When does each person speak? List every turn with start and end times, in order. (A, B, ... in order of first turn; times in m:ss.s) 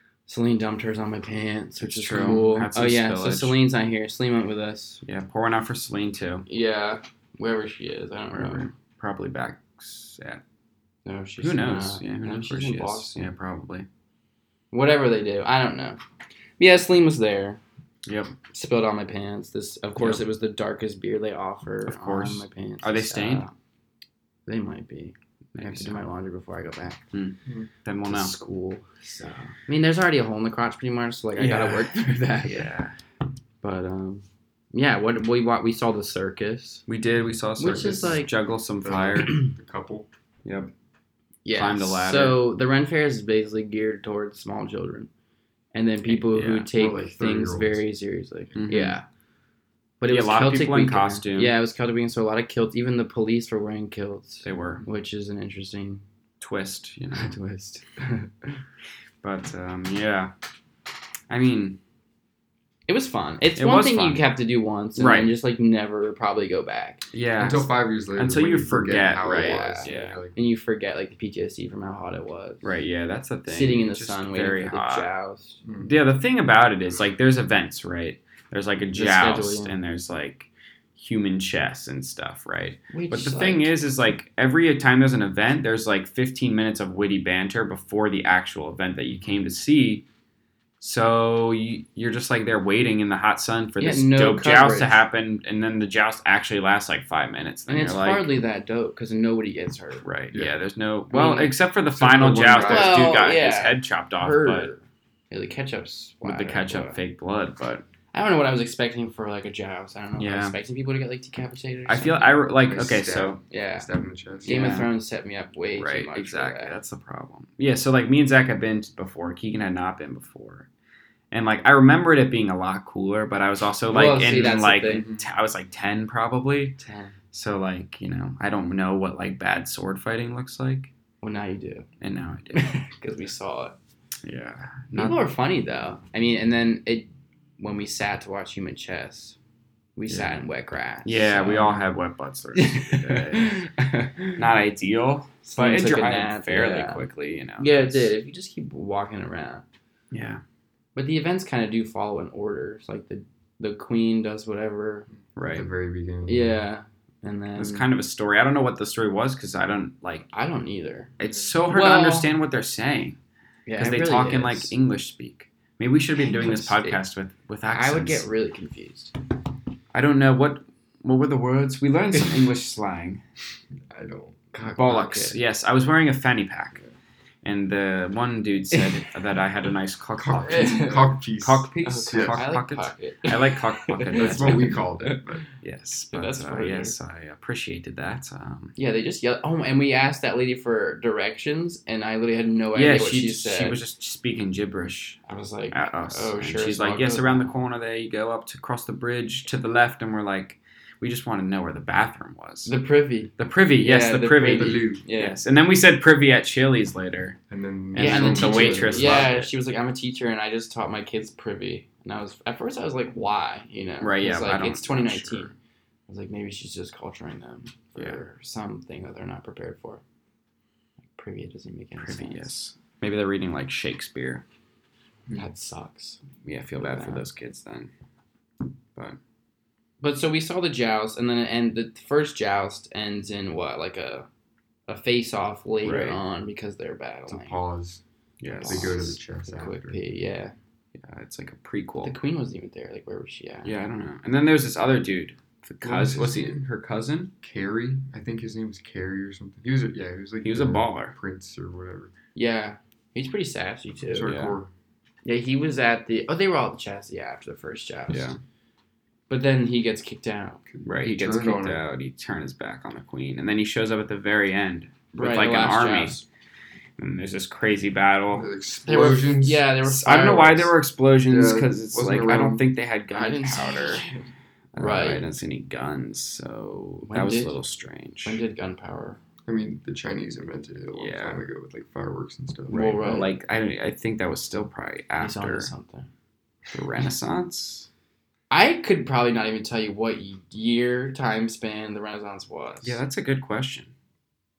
0:00.3-0:05.0 A
0:01.8-0:03.6 B
0:05.0-0:06.5 B
0:06.5-0:08.7 A
0:08.3-0:10.4 B
0:11.0-0:13.2 A
0:11.4-0:13.9 B
0:14.7-0:16.0 A
0:16.6-0:17.6 A
0:18.0-0:18.3 B
0:18.5-0:23.5 A
0:20.0-0:20.2 B
0:21.8-0:23.4 B
0:24.4-0:27.0 A
0:25.5-0:26.0 B
0:27.1-0:28.3 B
0:28.1-0:32.7 A
0:31.4-0:32.9 B
0:33.6-0:36.8 A
0:36.9-0:39.4 B
0:37.6-0:38.3 A
0:38.8-0:40.1 C
0:40.4-0:40.7 B
0:41.4-0:45.1 A
0:41.5-0:42.4 B
0:45.7-0:49.0 A
0:46.1-0:46.7 B
0:46.7-0:47.8 C
0:48.5-0:49.0 B
0:50.0-0:56.0 A
0:50.1-0:51.6 B
0:54.4-0:54.8 B
0:56.4-0:57.8 B
0:57.2-0:58.3 A
0:59.2-1:00.3 B
1:01.3-1:01.8 B
1:02.9-1:07.0 A
1:03.6-1:04.2 B
1:05.0-1:05.3 B
1:07.1-1:10.2 B
1:07.4-1:10.3 C
1:09.2-1:12.6 A
1:12.6-1:15.1 B
1:13.5-1:15.6 A
1:15.6-1:15.9 C
1:15.8-1:30.0 B
1:18.9-1:19.7 A
1:22.9-1:23.7 A
1:30.8-1:38.3 B
1:33.8-1:35.0 A
1:37.7-1:40.0 A
1:40.0-1:44.7 B
1:41.1-1:41.5 A
1:41.9-1:43.1 C
1:42.6-1:47.0 A
1:46.2-1:47.8 B
1:48.1-1:52.5 A
1:50.2-1:50.6 B
1:51.9-1:53.4 B
1:52.6-1:54.8 C
1:53.5-1:53.9 A
1:54.4-1:54.9 B
1:54.4-1:56.8 A
1:55.8-2:00.7 B
2:01.3-2:06.8 B
2:03.9-2:05.0 A
2:04.9-2:05.2 C
2:06.8-2:07.1 A
2:07.3-2:10.9 B
2:11.2-2:11.8 A
2:12.0-2:12.7 B
2:12.5-2:13.7 A
2:14.2-2:15.2 B
2:14.9-2:19.4 A
2:20.0-2:21.8 A
2:20.1-2:20.4 B
2:21.0-2:23.6 B
2:22.6-2:24.4 A
2:24.4-2:28.1 B
2:25.4-2:27.0 A
2:27.6-2:29.6 A
2:30.1-2:30.4 B
2:31.0-2:35.1 A
2:35.4-2:35.7 B
2:35.4-2:36.6 C
2:36.2-2:37.9 A
2:37.6-2:40.3 B
2:40.3-2:41.1 A
2:41.2-2:43.2 B
2:41.7-2:42.3 A
2:43.6-2:44.7 A
2:43.8-2:48.2 B
2:46.1-2:47.0 A
2:47.7-2:49.1 A
2:49.9-2:53.2 B
2:53.9-2:54.4 C
2:54.5-2:55.4 A
2:54.8-2:56.8 B
2:57.4-3:04.8 B
2:58.7-2:59.0 A
3:00.2-3:02.4 C
3:00.4-3:01.1 A
3:01.8-3:05.2 A
3:04.1-3:05.4 C
3:05.6-3:08.7 B
3:06.1-3:07.0 A
3:08.8-3:13.8 A
3:12.7-3:15.2 B
3:15.2-3:17.5 A
3:15.7-3:22.7 B
3:22.6-3:25.4 A
3:23.4-3:27.4 B
3:24.5-3:25.0 C
3:27.5-3:29.3 C
3:27.9-3:29.5 B
3:27.9-3:35.5 A
3:34.0-3:35.5 B
3:36.1-3:40.0 A
3:41.1-3:42.5 A
3:42.0-3:44.4 B
3:45.3-3:46.2 A
3:46.4-3:47.9 B
3:46.8-3:47.2 A
3:50.0-3:54.3 A
3:54.9-3:57.6 A
3:55.8-3:56.2 B
3:57.3-3:58.0 C
3:58.4-3:59.1 B
3:58.5-4:00.5 A
3:58.6-4:00.0 C
4:01.0-4:02.1 B
4:02.0-4:03.7 A
4:03.6-4:07.3 B
4:05.8-4:06.6 C
4:07.4-4:12.1 C
4:10.4-4:11.1 B
4:12.3-4:14.3 A
4:14.0-4:14.7 C
4:14.2-4:14.6 B
4:15.2-4:18.3 A
4:18.1-4:18.4 B
4:19.3-4:20.6 A
4:20.7-4:21.8 C
4:20.8-4:26.2 B
4:25.1-4:26.2 A
4:27.0-4:28.5 B
4:28.3-4:29.7 C
4:28.8-4:30.7 A
4:29.8-4:34.0 B
4:31.2-4:32.6 C
4:33.1-4:34.2 A
4:34.7-4:38.4 B
4:34.8-4:35.2 A
4:37.0-4:37.5 A
4:38.2-4:39.2 A
4:39.4-4:43.1 C
4:41.0-4:41.4 B
4:42.7-4:43.3 A
4:42.9-4:45.7 B
4:45.2-4:46.1 A
4:46.7-4:47.9 B
4:48.5-4:53.0 A
4:52.8-4:53.9 B